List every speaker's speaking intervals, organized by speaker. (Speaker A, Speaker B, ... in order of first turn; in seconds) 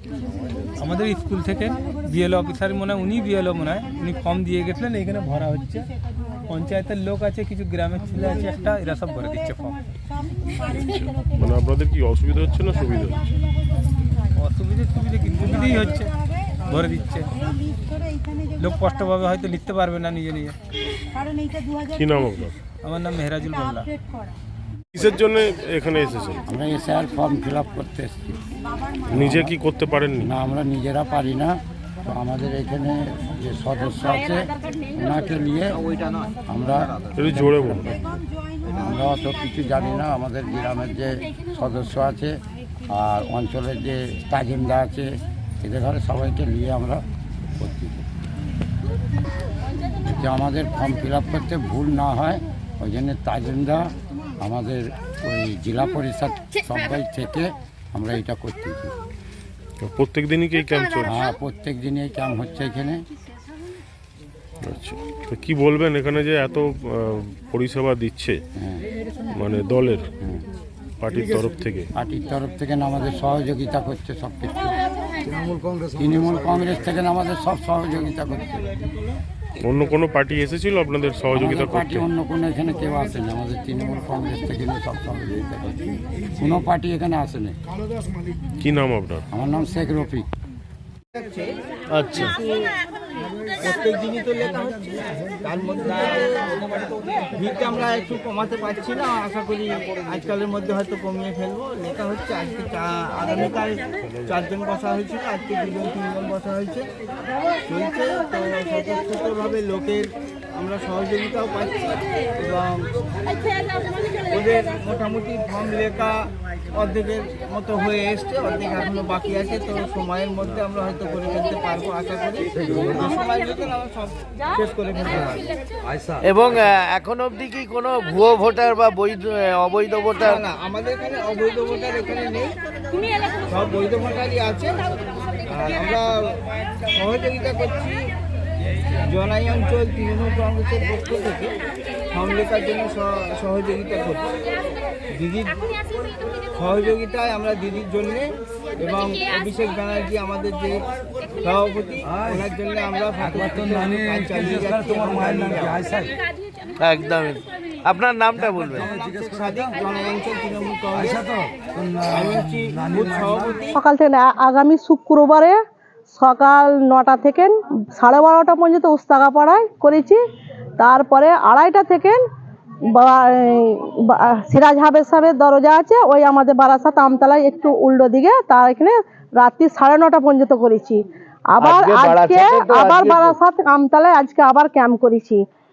Speaker A: 0.8-5.9, 6.5-9.8, 14.4-16.1, 16.7-17.3, 18.6-20.5, 22.8-23.9
Speaker B: 10.7-13.2, 21.9-22.6, 24.9-26.4, 29.1-30.3, 37.2-37.9, 59.8-61.3, 64.6-68.4, 69.4-70.1, 71.0-71.9, 79.6-82.1, 88.6-89.2, 92.0-92.3
Speaker C: 26.5-28.4, 28.9-29.5, 30.2-35.9, 36.5-38.0, 38.7-47.0, 47.6-48.0, 50.0-58.9, 61.0-63.0, 72.0-74.8, 75.8-78.6, 81.3-87.6, 89.3-90.3
Speaker D: 91.1-91.6, 92.1-92.7, 93.6-106.9, 107.7-112.9, 114.3-116.2, 116.8-125.4, 130.2-132.6, 133.5-134.8, 135.5-136.3, 136.9-138.0, 139.1-141.5, 142.1-144.3, 145.1-145.6, 146.6-150.8, 151.4-155.9, 158.8-161.3, 162.1-163.8
Speaker E: 126.2-130.4, 156.8-158.9, 181.6-183.4
Speaker F: 163.7-165.6, 166.1-170.2, 170.8-172.2, 172.9-185.4